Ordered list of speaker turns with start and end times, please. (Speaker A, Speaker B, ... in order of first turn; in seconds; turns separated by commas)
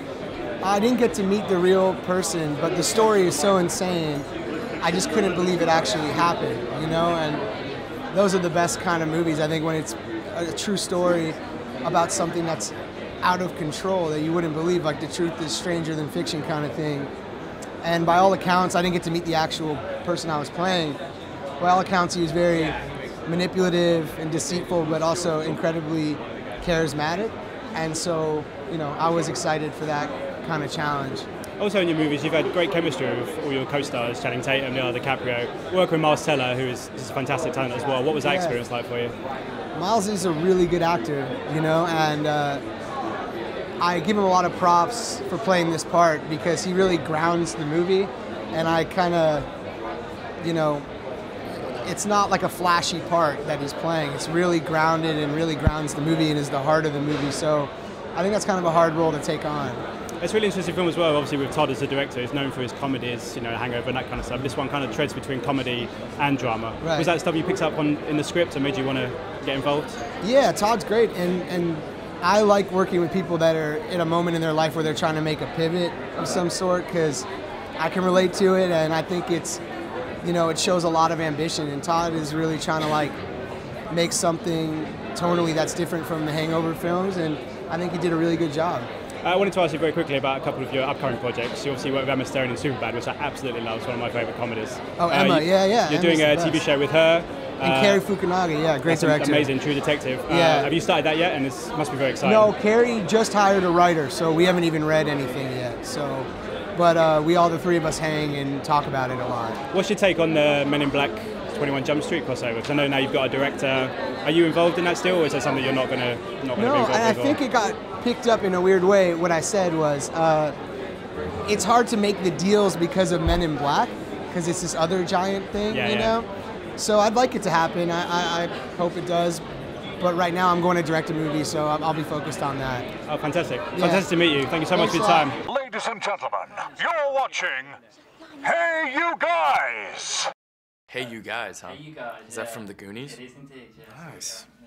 Speaker A: 0.6-4.3, Speaker A: 4.8-7.4, Speaker A: 8.1-17.1, Speaker A: 17.8-21.0, Speaker A: 21.6-31.3, Speaker B: 31.6-39.1, Speaker A: 38.2-38.6, Speaker A: 39.7-42.6, Speaker A: 43.8-49.5, Speaker A: 50.4-50.9, Speaker A: 51.8-59.8, Speaker B: 60.2-70.0, Speaker A: 66.8-67.1, Speaker A: 70.2-77.2, Speaker A: 77.8-79.6, Speaker A: 80.2-83.2, Speaker A: 83.9-88.9, Speaker B: 89.2-98.0, Speaker A: 95.0-96.6, Speaker A: 97.6-99.5, Speaker B: 98.9-102.5, Speaker A: 100.3-100.7, Speaker A: 102.2-109.6, Speaker B: 109.7-117.4, Speaker A: 116.5-120.5, Speaker A: 121.5-129.4, Speaker B: 125.7-126.2, Speaker A: 130.0-132.8, Speaker B: 133.1-135.4, Speaker A: 133.7-134.1, Speaker A: 134.7-135.3, Speaker C: 135.4-137.8, Speaker C: 138.4-140.3, Speaker D: 140.9-143.2, Speaker E: 141.7-144.4, Speaker D: 143.9-144.4